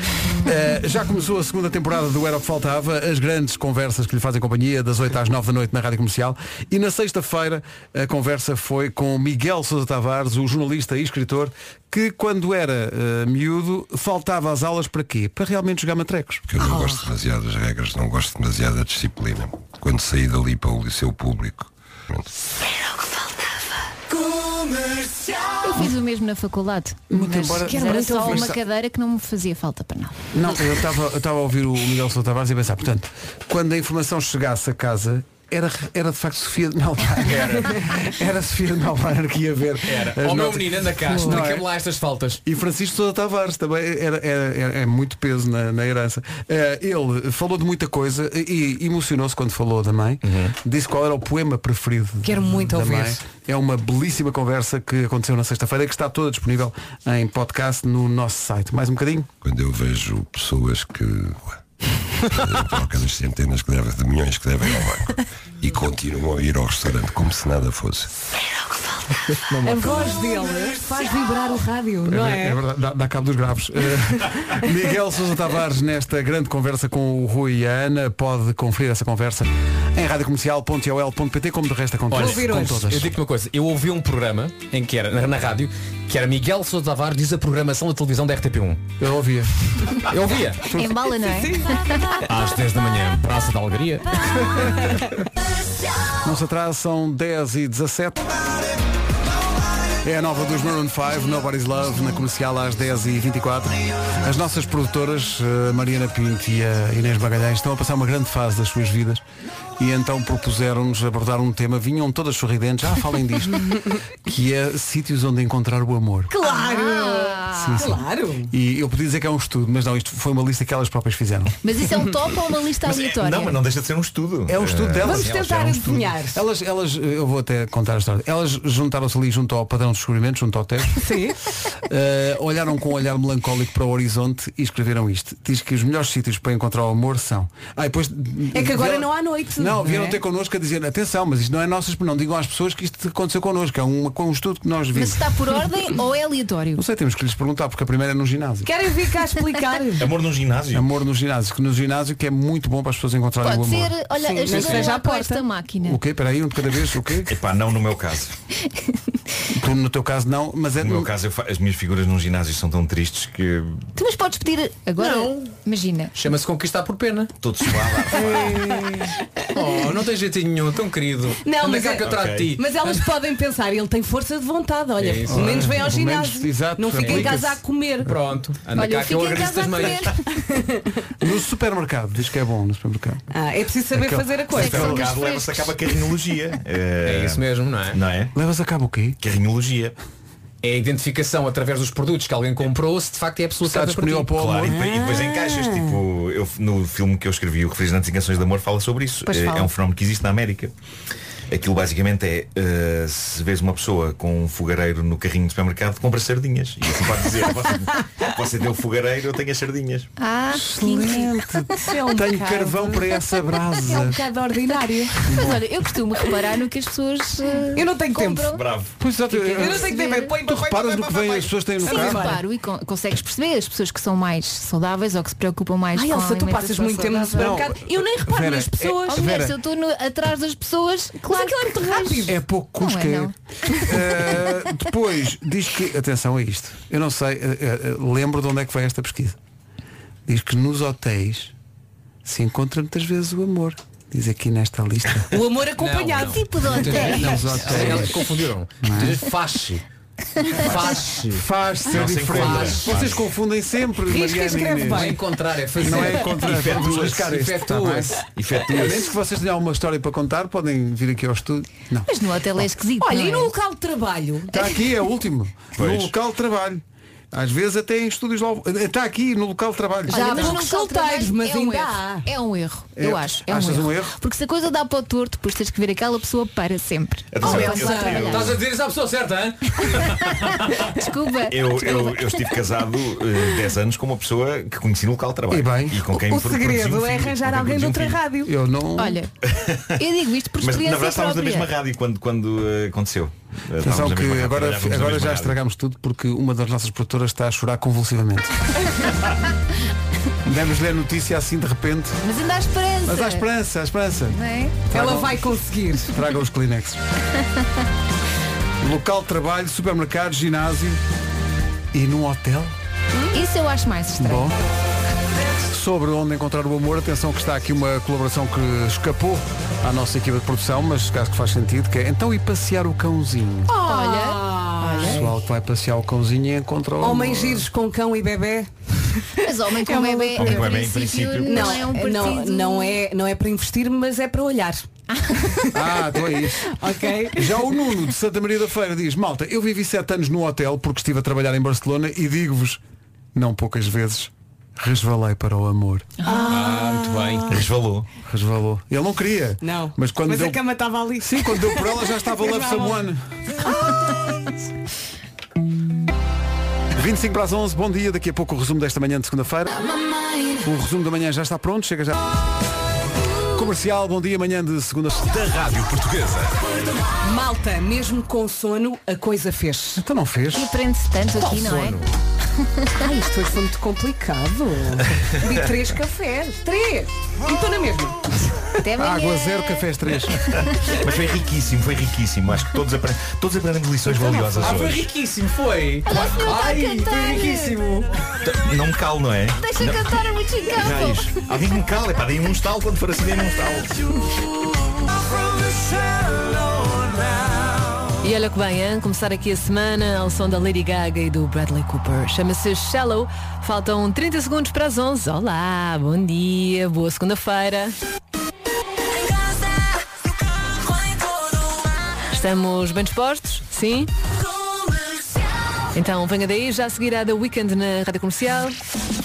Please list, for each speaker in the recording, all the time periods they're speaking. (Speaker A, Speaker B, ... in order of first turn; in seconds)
Speaker A: 0.3-16.5, 27.1-28.6, 30.3-41.7, 42.4-59.3, 69.3-70.0, 72.0-83.1, 89.0-89.9, 90.7-91.0, 96.2-98.4, 100.0-109.2, 109.8-116.3, 117.5-121.5, 124.5-131.1, 131.8-145.2, 146.7-148.7, 150.7-153.9, 155.8-157.3, 159.5-161.1, 175.3-177.6, 181.2-183.2, 183.9-184.4, 188.3-189.2, 193.6-194.8, 210.5-214.2, 215.2-215.7, 219.0-222.3, 227.3-229.6, 232.3-239.4, 240.2-241.5, 242.2-245.3, 247.0-248.2, 248.8-249.2, 251.3-255.2, 255.8-262.1, 264.5-270.6, 273.0-274.1, 285.5-286.0, 287.8-289.2, 293.8-298.5, 300.4-302.2, 303.1-304.4, 304.9-305.4, 306.1-307.0, 308.8-311.0, 311.9-312.7, 314.2-314.6, 315.6-323.8, 325.1-327.7, 335.7-336.7, 337.3-342.8, 343.3-346.1, 348.2-350.6, 351.2-353.2, 356.9-359.8, 360.6-362.2, 363.5-365.6, 370.0-370.7, 379.0-380.4
Speaker B: 16.5-22.3, 59.4-61.6, 62.2-68.1
Speaker C: 25.6-30.2, 90.7-92.2, 116.4-117.9, 121.6-123.6, 144.9-146.8, 153.4-156.0, 158.7-159.0, 163.9-166.1, 178.8-180.4, 184.5-186.0, 210.2-211.3, 215.2-218.6, 219.5-220.4, 221.8-227.6, 229.1-232.3, 232.8-233.9, 246.3-247.3, 262.1-263.5, 270.1-278.5, 280.8-282.5, 288.9-289.3, 290.0-291.7, 302.2-303.4, 304.3-304.7, 313.3-314.5, 323.8-325.2, 329.4-333.0, 346.2-346.5, 370.5-372.0, 378.8-379.9, 386.1-387.8, 389.6-391.4
Speaker D: 27.6-28.6, 52.2-53.2, 69.6-72.6, 82.1-82.8, 91.3-91.7, 116.3-118.5, 125.0-126.4, 131.0-131.4, 138.5-140.2, 148.6-150.1, 154.2-155.4, 168.2-169.4, 171.4-178.1, 180.3-180.9, 183.3-185.0, 194.6-196.0, 199.3-199.6, 211.8-215.3, 217.7-218.5, 219.3-222.4, 225.9-229.2, 231.3-232.4, 245.3-247.8, 252.4-253.0, 254.1-255.2, 263.0-264.6, 270.1-272.3, 277.4-278.4, 286.1-288.5, 304.9-306.2, 323.7-325.3, 327.0-330.6, 331.4-334.9, 335.4-335.8, 336.6-337.7, 346.2-347.6, 349.6-353.0, 353.6-354.5, 367.2-370.0, 372.9-378.2, 384.5-384.8
Speaker E: 37.2-38.0, 39.8-42.4, 50.2-50.5, 82.1-88.8, 90.1-90.6, 92.3-94.2, 165.0-165.5, 166.2-167.3, 169.5-173.0, 175.0-175.7, 177.0-177.4, 178.0-180.1, 187.0-188.0, 190.6-194.3, 245.8-249.8, 250.5-251.4, 252.2-253.0, 254.9-258.2, 278.3-280.6, 346.5-347.5, 371.4-372.0, 384.6-388.1
Speaker F: 122.8-125.7, 149.9-150.9, 157.2-158.4, 160.8-163.9, 167.4-169.0, 172.0-172.5, 184.6-188.3, 189.2-189.9, 194.3-200.7, 201.5-210.1, 218.5-218.9, 251.9-253.3, 256.4-257.3, 258.3-259.1, 265.8-266.1, 277.3-278.6, 281.5-288.2, 289.5-290.0, 290.6-295.6, 330.3-331.9, 347.5-348.1, 381.0-385.1, 388.4-390.2, 390.7-394.0
Speaker G: 398.2-407.9, 412.3-414.1, 415.9-418.8